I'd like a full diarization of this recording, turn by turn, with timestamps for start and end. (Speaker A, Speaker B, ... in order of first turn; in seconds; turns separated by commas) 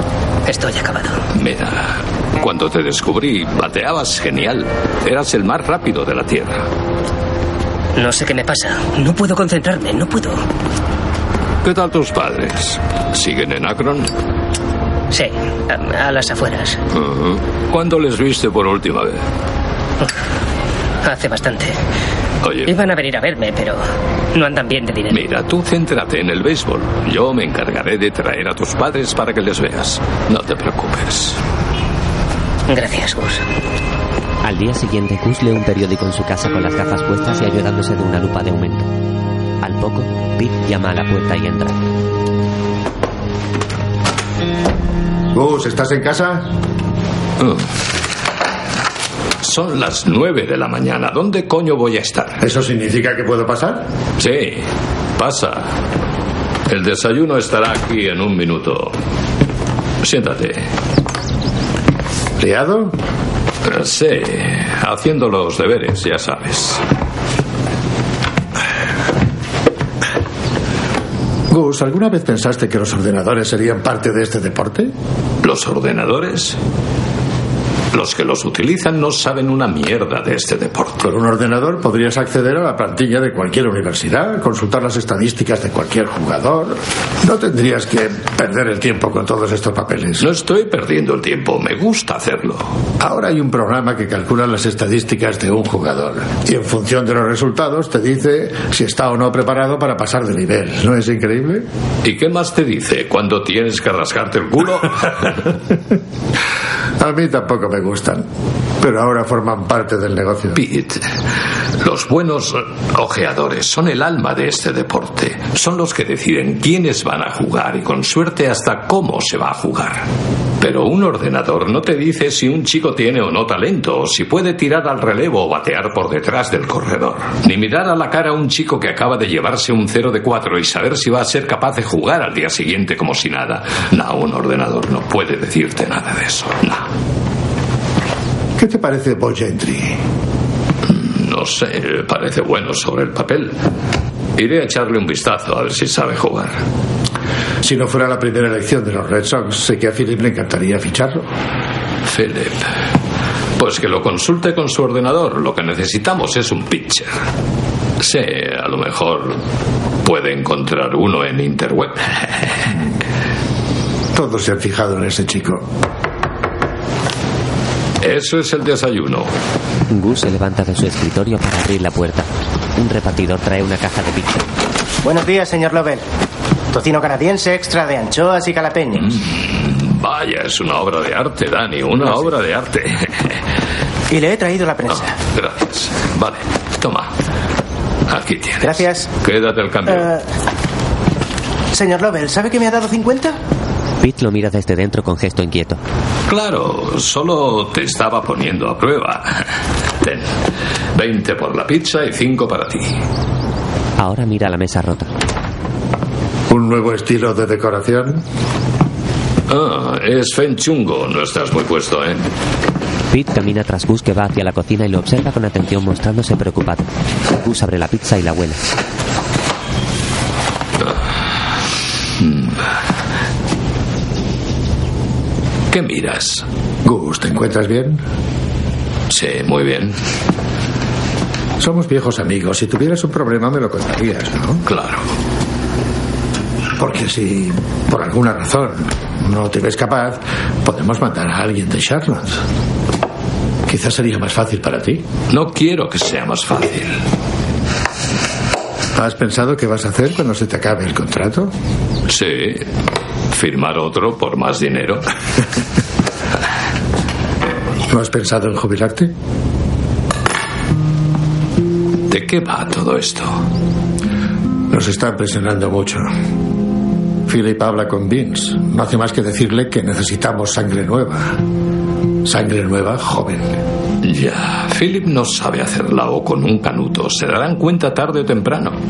Speaker A: 0.5-1.2, Speaker B: 1.4-6.7, Speaker A: 8.0-10.4, Speaker B: 11.6-14.1, Speaker A: 15.1-16.8, Speaker B: 16.9-19.2, Speaker A: 21.0-21.8, Speaker B: 22.4-22.8, Speaker A: 22.7-23.8, Speaker A: 24.3-25.2, Speaker B: 25.1-31.4, Speaker A: 32.7-33.4, Speaker C: 34.4-38.9, Speaker C: 39.6-41.8, Speaker D: 45.3-46.5, Speaker B: 49.4-52.4, Speaker D: 52.4-53.9, Speaker B: 54.2-54.6, Speaker B: 55.2-55.7, Speaker B: 56.7-58.9, Speaker B: 60.0-60.7, Speaker D: 62.4-62.9, Speaker B: 63.6-66.8, Speaker D: 71.5-74.9, Speaker B: 75.4-76.6, Speaker B: 77.9-81.0, Speaker D: 81.0-90.3, Speaker B: 90.2-92.7, Speaker D: 93.0-101.7, Speaker B: 102.0-105.5, Speaker D: 107.0-108.2, Speaker D: 108.8-110.6, Speaker B: 110.6-111.0, Speaker B: 111.8-120.0, Speaker B: 120.6-136.8, Speaker D: 138.6-140.0, Speaker B: 140.9-143.5, Speaker B: 144.4-146.6, Speaker D: 147.6-151.3, Speaker B: 152.1-152.7, Speaker B: 153.6-157.1, Speaker B: 158.0-159.4, Speaker B: 160.0-162.3, Speaker D: 164.1-165.6, Speaker B: 168.0-169.3, Speaker C: 169.9-174.4, Speaker E: 175.0-176.0, Speaker E: 176.7-179.1, Speaker B: 179.4-183.1, Speaker E: 184.1-185.2, Speaker B: 185.3-187.1, Speaker B: 188.1-190.1, Speaker E: 188.6-189.1, Speaker E: 189.9-190.2, Speaker E: 191.7-193.4, Speaker C: 194.0-195.8, Speaker B: 196.3-199.4, Speaker B: 200.0-200.3, Speaker B: 200.9-203.0, Speaker C: 204.0-205.1, Speaker D: 206.5-208.2, Speaker B: 209.5-212.2, Speaker C: 213.1-216.9, Speaker C: 217.4-218.6, Speaker B: 222.2-222.6, Speaker B: 225.7-226.4, Speaker D: 226.8-228.0, Speaker B: 229.1-230.0, Speaker D: 231.6-234.6, Speaker B: 234.7-235.0, Speaker D: 236.8-242.4, Speaker D: 243.7-245.0, Speaker B: 245.3-247.0, Speaker D: 248.9-251.5, Speaker B: 252.1-252.7, Speaker B: 253.3-255.1, Speaker D: 257.9-259.1, Speaker B: 262.1-263.4, Speaker D: 264.7-266.1, Speaker D: 267.3-271.4, Speaker D: 272.2-273.6, Speaker B: 274.0-278.8